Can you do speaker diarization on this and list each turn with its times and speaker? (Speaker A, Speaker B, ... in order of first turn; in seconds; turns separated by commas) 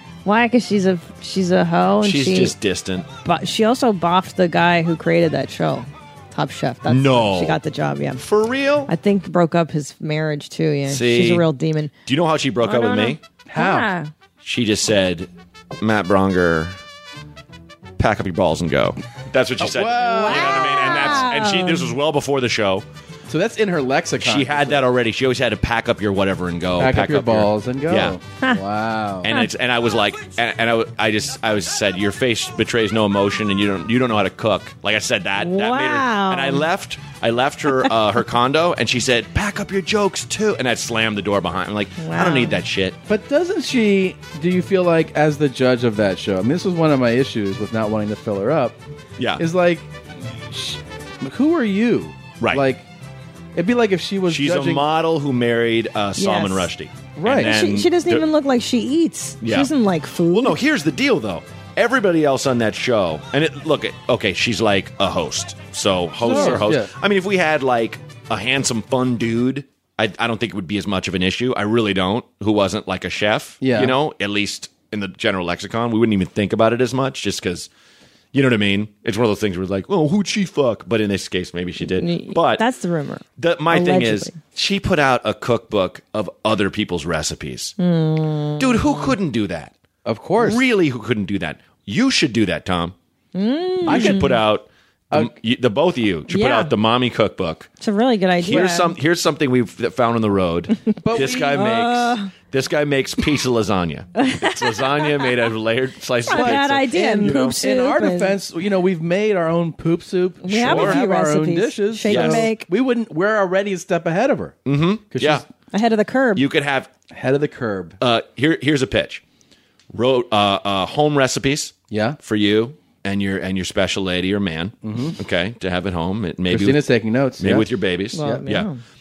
Speaker A: 0.2-2.5, Speaker B: 2.0-3.1, Speaker A: 3.2-8.2, Speaker B: 6.9-7.6, Speaker B: 8.2-8.9, Speaker A: 8.9-11.9, Speaker B: 10.9-11.4, Speaker B: 12.1-13.2, Speaker A: 12.6-14.1, Speaker C: 13.4-13.9, Speaker B: 14.4-15.3, Speaker B: 15.8-16.8, Speaker B: 18.0-22.9, Speaker C: 19.6-21.3, Speaker A: 20.0-21.9, Speaker C: 23.3-24.8, Speaker B: 24.2-28.1, Speaker C: 26.8-29.3, Speaker B: 29.2-43.0, Speaker A: 35.4-36.6, Speaker A: 42.0-42.6, Speaker C: 43.1-48.8, Speaker B: 49.2-49.4, Speaker C: 49.4-49.9, Speaker C: 50.4-52.9, Speaker C: 53.5-54.8, Speaker B: 54.3-58.2, Speaker A: 56.2-56.7, Speaker C: 57.2-57.5, Speaker A: 57.4-60.5, Speaker B: 59.4-59.7, Speaker B: 60.2-77.7, Speaker C: 66.2-66.9, Speaker A: 66.2-66.6, Speaker C: 73.6-74.0, Speaker B: 78.3-82.6, Speaker A: 82.0-84.4, Speaker B: 83.4-87.7, Speaker A: 87.8-89.1, Speaker B: 88.6-89.7, Speaker C: 90.0-90.6, Speaker B: 90.4-92.9, Speaker A: 93.3-94.4, Speaker C: 93.8-94.3, Speaker B: 93.8-97.7, Speaker A: 96.3-96.7, Speaker A: 97.8-98.9, Speaker B: 98.4-107.6, Speaker C: 101.0-101.7, Speaker A: 101.5-102.3, Speaker A: 104.2-105.3, Speaker A: 106.3-108.4, Speaker C: 106.3-114.6, Speaker A: 110.4-112.7, Speaker B: 110.6-111.0, Speaker B: 112.1-112.5, Speaker B: 114.7-115.4, Speaker C: 115.1-115.5, Speaker A: 115.7-116.4, Speaker B: 116.3-116.9, Speaker C: 117.1-118.0, Speaker B: 118.0-119.2, Speaker B: 119.9-126.8, Speaker C: 121.9-122.2, Speaker C: 124.8-125.2, Speaker C: 126.5-128.4, Speaker B: 127.4-128.7, Speaker A: 128.1-128.8